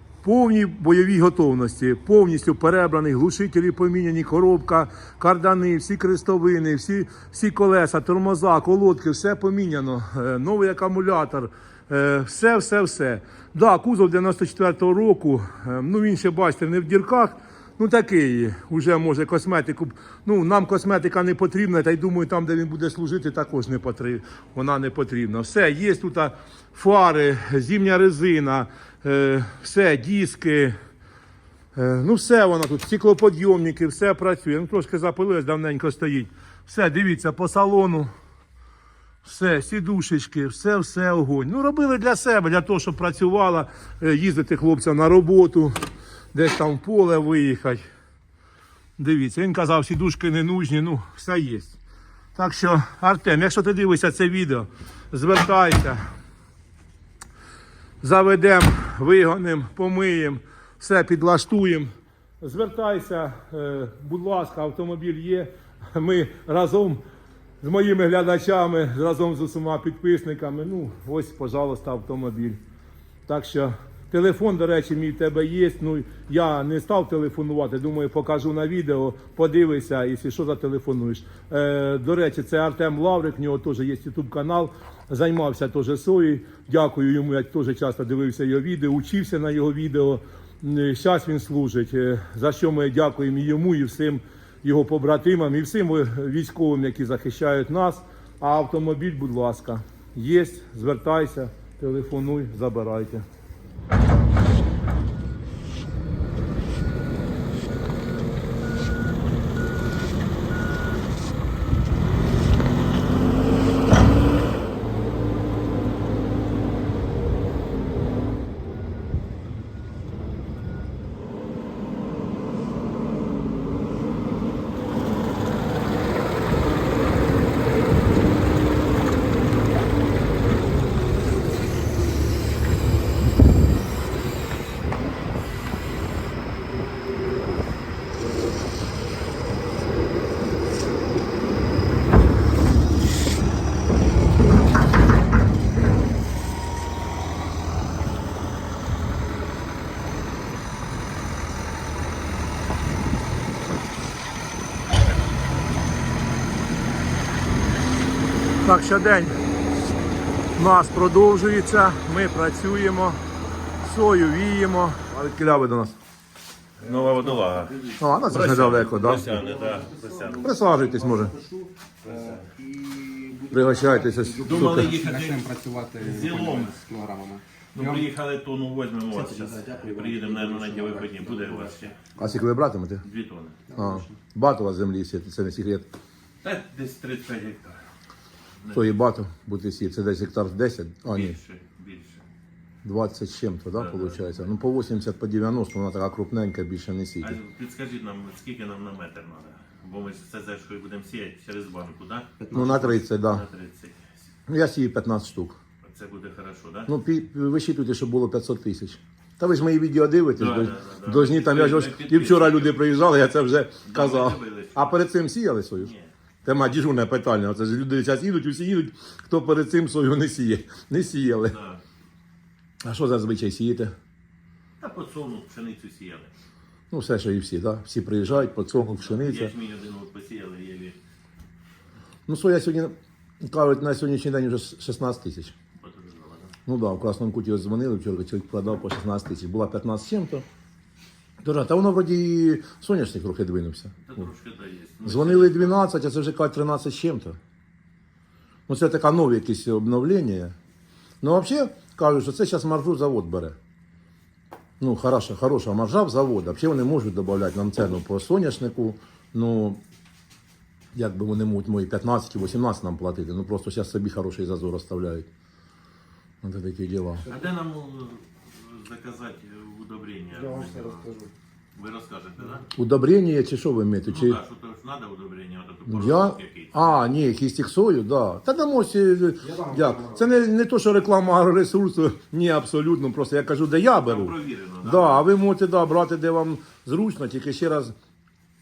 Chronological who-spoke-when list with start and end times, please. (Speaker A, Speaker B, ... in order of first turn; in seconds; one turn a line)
Speaker A: 0.2-30.7
Speaker A: 31.7-38.1
Speaker A: 39.2-45.7
Speaker A: 46.3-47.8
Speaker A: 49.0-51.8
Speaker A: 52.3-56.0
Speaker A: 58.0-61.9
Speaker A: 62.4-67.0
Speaker A: 67.6-72.6
Speaker A: 73.3-103.2
Speaker A: 158.6-159.4
Speaker A: 160.6-163.2
Speaker A: 163.8-166.0
Speaker B: 166.8-170.5
Speaker C: 166.8-168.0
Speaker A: 168.0-169.4
Speaker C: 169.1-178.1
Speaker A: 170.4-171.3
Speaker B: 172.0-172.4
Speaker A: 173.5-174.9
Speaker B: 174.4-176.8
Speaker B: 177.7-182.0
Speaker C: 179.1-182.4
Speaker A: 182.2-183.0
Speaker B: 183.0-183.6
Speaker C: 183.7-184.2
Speaker A: 183.7-185.9
Speaker B: 186.4-187.8
Speaker B: 188.6-188.9
Speaker A: 188.7-191.4
Speaker B: 191.1-192.2
Speaker A: 192.8-197.4
Speaker B: 193.7-194.4
Speaker B: 197.2-204.2
Speaker C: 202.4-203.0
Speaker A: 202.5-203.4
Speaker A: 204.5-205.6
Speaker B: 205.8-206.9
Speaker A: 206.9-215.9
Speaker B: 210.3-212.8
Speaker B: 213.8-215.0
Speaker B: 215.8-216.1
Speaker A: 216.4-221.6
Speaker B: 221.5-221.8
Speaker A: 222.8-223.9
Speaker B: 224.8-226.3
Speaker A: 226.9-229.5
Speaker B: 228.3-231.0
Speaker A: 232.3-235.5
Speaker B: 235.8-236.5
Speaker A: 236.7-240.4
Speaker A: 241.4-244.3
Speaker B: 244.0-245.8
Speaker A: 245.0-247.4
Speaker A: 248.7-250.5
Speaker A: 251.2-253.6
Speaker A: 254.8-259.8
Speaker A: 260.9-265.3
Speaker A: 266.4-267.2
Speaker B: 267.3-271.1
Speaker C: 270.3-271.3
Speaker B: 271.7-272.7
Speaker A: 272.7-274.4
Speaker B: 274.1-276.9
Speaker A: 275.9-287.9
Speaker C: 279.4-280.2
Speaker B: 284.0-285.2